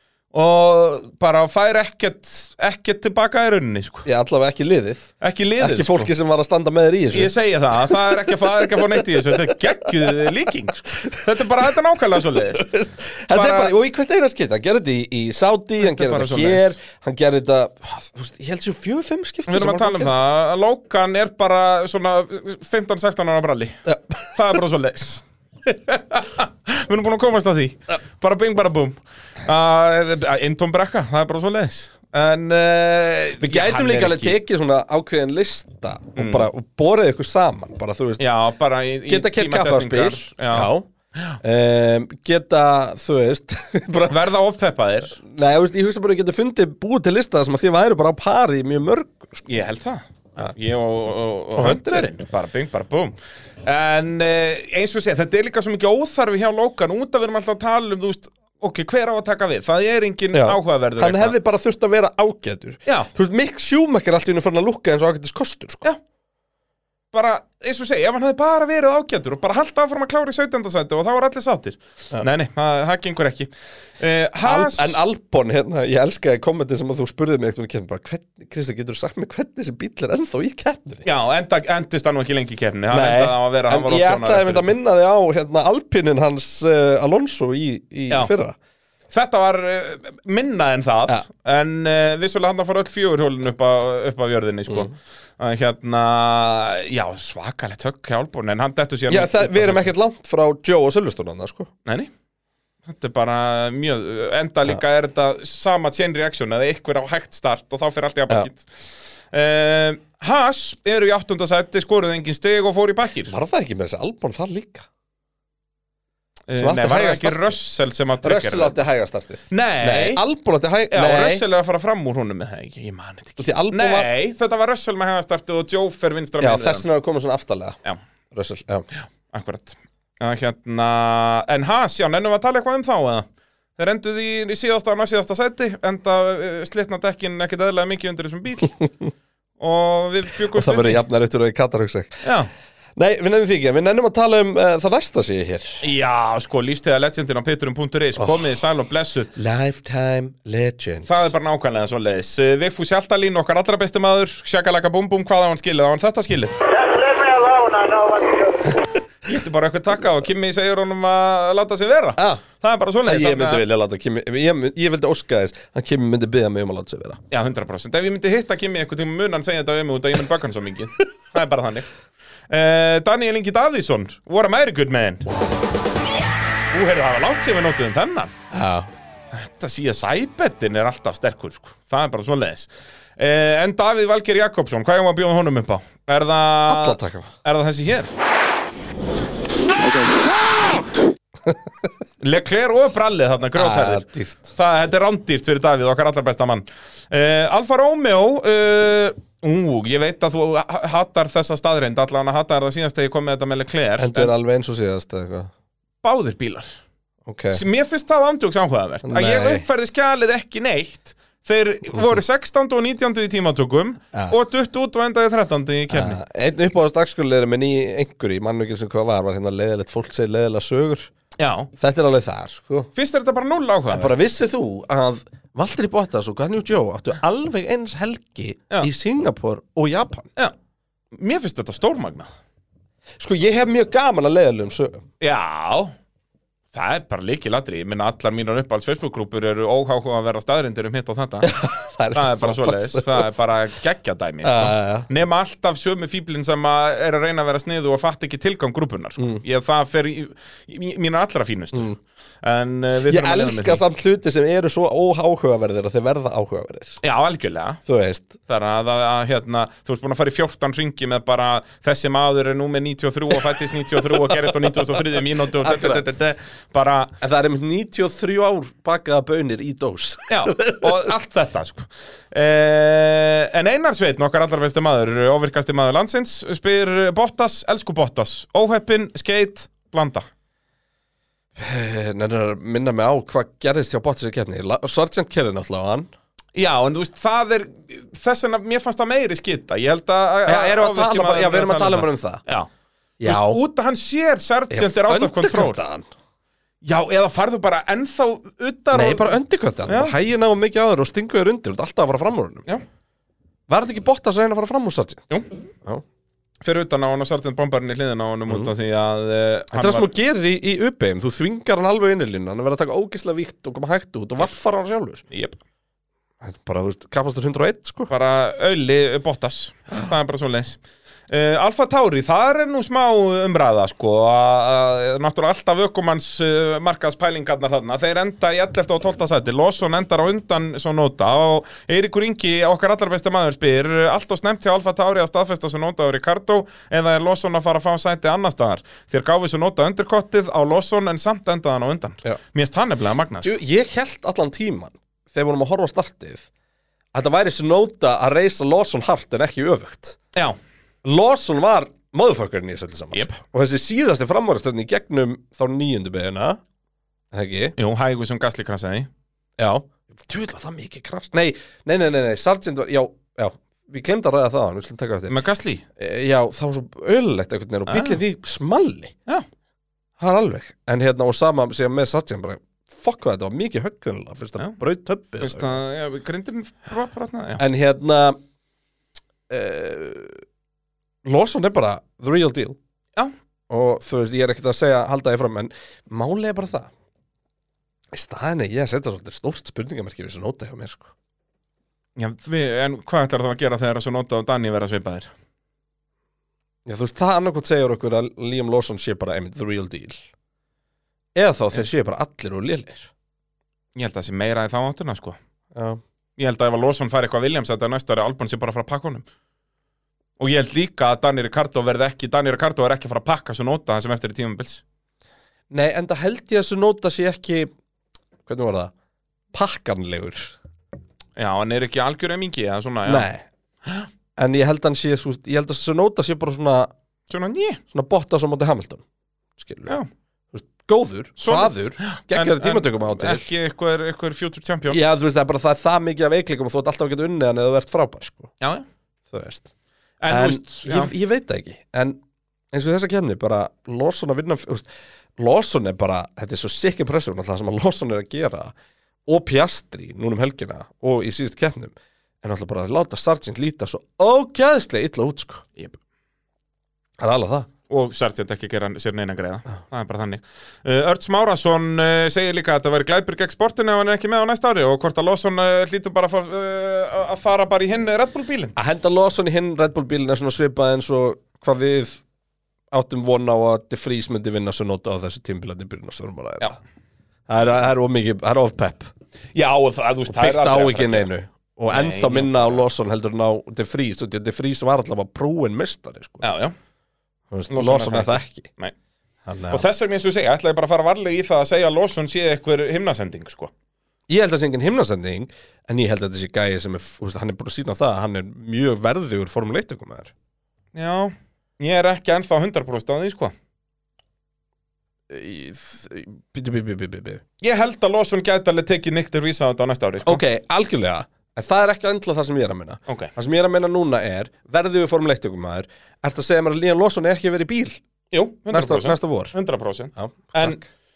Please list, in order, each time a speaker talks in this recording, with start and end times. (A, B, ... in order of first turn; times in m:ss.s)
0:00.3-0:04.1 A
0:04.0-0:10.2 B
0:05.2-0:06.1 A
0:07.1-0:12.7 A
0:11.0-0:11.3 B
0:12.1-0:20.1 B
0:13.3-0:13.7 A
0:15.8-0:16.8 A
0:19.5-0:34.4 A
0:23.9-0:24.3 B
0:33.4-0:38.2 B
0:36.2-0:36.5 A
0:38.2-0:41.4 A
0:39.1-0:40.9 B
0:41.4-0:44.2 B
0:44.1-0:45.2 A
0:45.2-0:49.4 B
0:49.5-1:01.4 A
0:51.6-0:52.1 B
1:00.3-1:05.9 B
1:02.9-1:03.1 A
1:07.1-1:15.0 A
1:14.4-1:21.0 B
1:21.0-1:24.7 A
1:22.9-1:28.6 B
1:29.1-1:39.9 A
1:39.1-1:41.7 B
1:41.8-1:42.1 A
1:42.8-1:53.4 A
1:53.3-1:54.9 B
1:56.5-1:58.8 A
1:56.6-1:57.6 B
1:58.2-2:01.4 B
1:59.5-2:00.2 A
2:00.9-2:06.8 A
2:03.4-2:04.1 B
2:06.4-2:07.8 B
2:08.3-2:08.9 B
2:08.9-2:18.7 A
2:18.8-2:19.1 B
2:19.6-2:21.0 A
2:20.5-2:22.3 B
2:22.2-2:22.5 A
2:23.0-2:25.8 B
2:25.8-2:29.3 A
2:29.4-2:31.2 B
2:31.0-2:36.6 A
2:36.6-2:38.9 C
2:39.2-2:43.6 A
2:42.2-2:42.4 B
2:43.0-2:47.2 B
2:47.3-2:51.9 A
2:52.5-2:55.3 A
2:56.7-2:58.3 A
2:58.5-2:58.9 B
2:59.3-3:08.1 A
3:06.7-3:07.3 B
3:12.2-3:24.3 A
3:13.6-3:14.5 B
3:24.0-3:25.5 B
3:26.0-3:26.8 A
3:27.3-3:27.6 B
3:27.5-3:36.2 A
3:29.0-3:29.7 B
3:35.9-3:41.1 B
3:41.4-3:41.7 A
3:41.8-3:42.9 B
3:43.0-3:44.2 A
3:43.9-3:50.3 B
3:51.1-3:52.3 A
3:53.2-3:55.0 B
3:55.2-3:55.9 A
3:56.7-4:01.5 A
4:01.4-4:03.3 B
4:02.1-4:11.9 A
4:04.4-4:05.1 B
4:11.7-4:12.0 B
4:12.4-4:13.8 A
4:13.1-4:17.0 B
4:17.0-4:17.8 A
4:17.9-4:18.4 B
4:18.5-4:27.2 A
4:25.6-4:26.1 B
4:27.2-4:31.1 B
4:30.3-4:40.3 A
4:41.6-4:46.1 B
4:46.6-4:52.7 A
4:50.5-4:52.4 B
4:53.2-4:53.6 B
4:53.2-4:55.8 A
4:54.7-4:56.1 B
4:56.8-4:59.4 A
4:58.9-5:02.7 B
4:59.9-5:00.2 A
5:03.7-5:05.3 B
5:06.6-5:10.1 A
5:09.7-5:15.2 B
5:15.3-5:15.6 A
5:16.4-5:18.1 B
5:18.1-5:43.5 A
5:43.4-5:46.5 B
5:47.1-5:50.2 B
5:51.0-5:56.6 B
5:57.3-5:57.8 B
5:57.8-5:59.1 A
5:59.6-6:05.4 B
6:05.3-6:05.8 A
6:06.0-6:09.2 B
6:07.9-6:08.2 A
6:10.2-6:15.7 B
6:15.4-6:17.6 A
6:17.6-6:18.4 B
6:19.5-6:20.4 B
6:21.2-6:22.8 B
6:23.7-6:26.9 B
6:28.1-6:31.1 B
6:32.2-6:35.3 A
6:36.9-6:40.2 B
6:41.4-6:43.1 B
6:44.0-6:45.4 A
6:45.7-6:46.0 B
6:46.4-6:49.3 A
6:50.4-6:54.8 A
6:55.7-6:57.7 B
6:58.5-6:58.9 B
6:59.5-7:00.6 B
7:01.4-7:03.3 A
7:03.1-7:03.4 B
7:04.4-7:06.9 B
7:07.3-7:07.8 A
7:07.9-7:09.0 B
7:09.6-7:10.0 B
7:10.5-7:13.5 B
7:11.4-7:15.0 A
7:14.9-7:18.5 B
7:18.6-7:18.9 A
7:19.3-7:19.7 B
7:20.2-7:21.1 A
7:20.3-7:22.2 B
7:22.7-7:28.7 B
7:29.3-7:35.6 B
7:37.2-7:37.7 B
7:37.9-7:48.8 A
7:48.8-7:52.2 B
7:52.9-7:56.8 B
7:57.5-7:59.1 B
7:59.6-8:01.3 A
8:00.3-8:06.5 B
8:01.9-8:02.8 A
8:06.4-8:06.8 A
8:07.5-8:08.7 B
8:07.7-8:08.9 A
8:09.4-8:09.9 B
8:09.7-8:13.7 A
8:14.3-8:20.3 B
8:20.9-8:23.5 A
8:25.3-8:27.4 B
8:27.6-8:30.4 A
8:30.2-8:38.0 B
8:33.1-8:33.3 A
8:38.3-8:40.8 A
8:38.7-8:39.5 B
8:40.2-8:40.8 B